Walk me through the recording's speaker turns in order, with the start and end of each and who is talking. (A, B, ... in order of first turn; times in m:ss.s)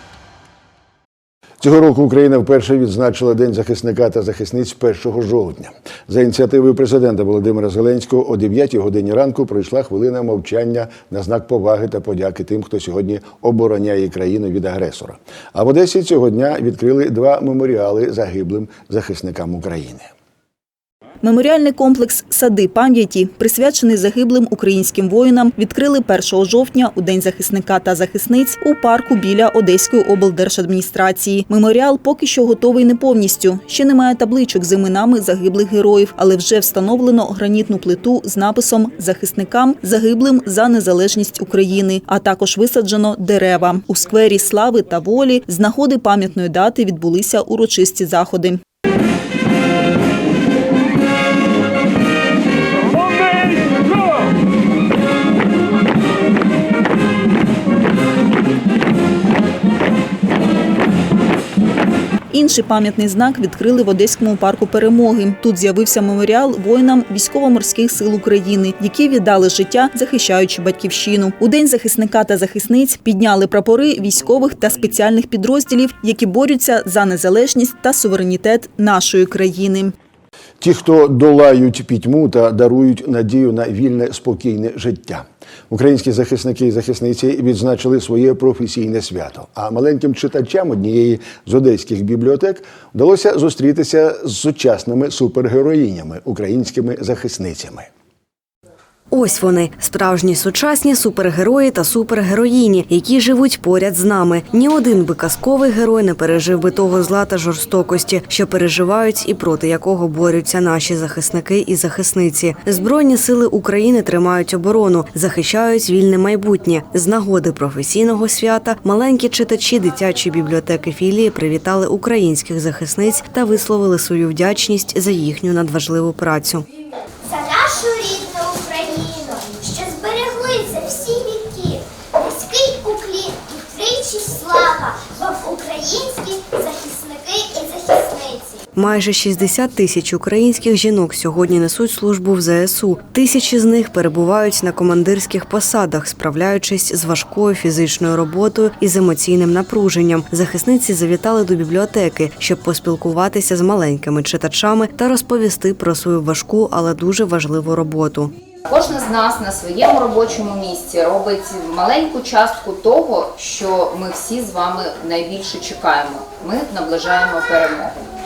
0:01.6-0:20.1 A
0:21.2-0:48.6 B
1:02.3-1:19.9 B
1:20.6-1:37.9 A
1:39.1-2:06.6 C
2:07.2-2:18.6 D
2:18.7-2:38.3 C
2:38.6-2:48.0 E